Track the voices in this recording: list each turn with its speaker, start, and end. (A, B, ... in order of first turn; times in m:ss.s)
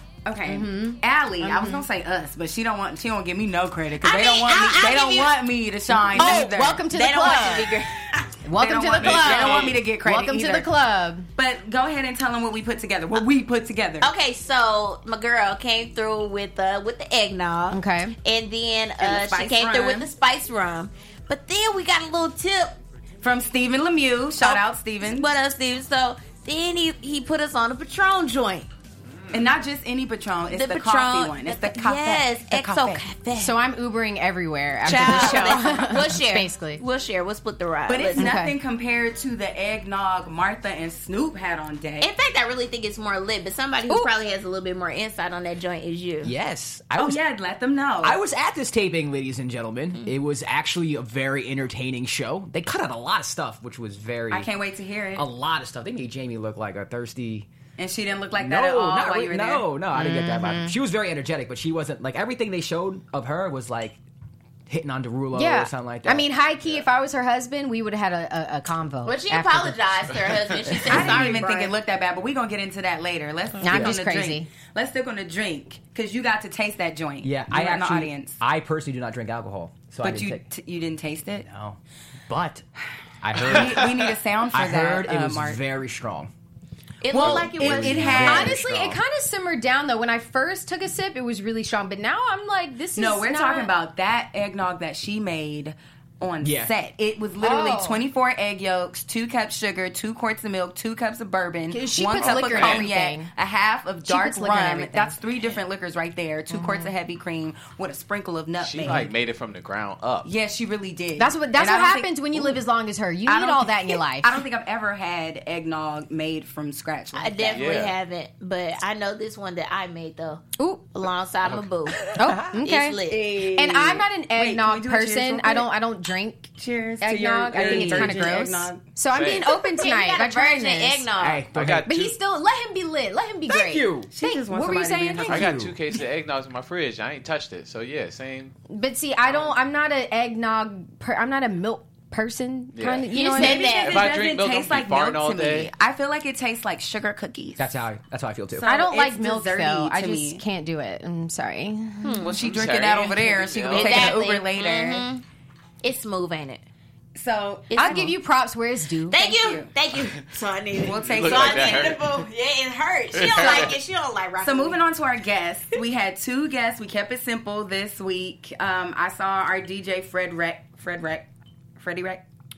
0:00.2-0:06.8 A
0:00.4-0:01.8 B
0:04.0-0:05.4 C
0:06.0-0:07.8 B
0:06.2-0:08.3 C
0:08.4-0:11.3 B
0:08.5-0:10.7 A
0:09.0-0:09.8 D
0:11.4-0:14.1 A
0:14.0-0:22.7 C
0:17.7-0:18.2 B
0:19.0-0:20.1 A
0:23.2-0:25.3 A
0:24.4-0:28.7 C
0:29.3-0:33.0 A
0:30.5-0:33.6 C
0:33.3-0:36.8 B
0:34.8-0:38.4 C
0:37.9-0:42.1 A
0:38.2-0:38.5 B
0:42.0-0:46.3 C
0:46.2-0:47.2 E
0:47.0-0:48.2 A
0:48.0-0:54.5 E
0:54.3-0:55.2 A
0:55.2-0:57.5 E
0:57.8-0:59.7 A
0:58.4-1:04.0 E
0:59.9-1:00.8 B
1:04.7-1:06.3 E
1:05.3-1:09.9 B
1:09.0-1:11.7 C
1:10.8-1:11.7 B
1:10.9-1:18.4 A
1:13.6-1:14.5 B
1:13.7-1:14.0 E
1:17.2-1:20.4 E
1:20.0-1:21.5 A
1:21.4-1:22.6 E
1:23.2-1:26.3 E
1:23.4-1:25.6 A
1:27.0-1:28.2 C
1:27.0-1:28.6 A
1:27.1-1:29.0 E
1:28.0-1:33.7 B
1:32.9-1:49.1 A
1:36.4-1:36.7 E
1:37.4-1:38.0 B
1:41.7-1:43.3 B
1:42.2-1:42.9 D
1:44.0-1:45.2 B
1:46.5-1:46.9 B
1:48.6-1:50.3 D
1:50.2-1:52.6 A
1:51.2-1:54.4 B
1:53.2-1:57.8 A
1:57.2-2:02.0 C
1:57.5-1:57.9 D
2:00.6-2:00.8 B
2:02.1-2:11.1 B
2:02.2-2:02.5 E
2:02.6-2:03.5 C
2:03.3-2:05.7 A
2:06.6-2:08.8 A
2:07.5-2:08.2 E
2:09.1-2:09.6 D
2:09.5-2:11.4 C
2:11.2-2:11.9 E
2:11.5-2:12.2 D
2:11.8-2:15.5 B
2:13.5-2:14.1 E
2:14.1-2:15.5 A
2:15.2-2:15.8 E
2:15.2-2:18.5 D
2:18.7-2:23.8 B
2:22.7-2:23.1 D
2:23.1-2:24.0 C
2:23.3-2:27.7 A
2:23.8-2:25.7 D
2:27.6-2:28.7 E
2:28.5-2:30.4 A
2:28.6-2:32.3 B
2:32.0-2:32.3 C
2:32.2-2:34.2 D
2:32.2-2:35.0 A
2:33.7-2:35.2 C
2:35.8-2:36.6 C
2:37.2-2:38.1 A
2:37.7-2:38.1 C
2:37.7-2:39.3 B
2:39.1-2:44.8 C
2:39.3-2:39.7 A
2:40.8-2:42.0 A
2:41.0-2:42.2 D
2:43.1-2:43.8 D
2:44.4-2:51.2 A
2:51.8-2:52.2 A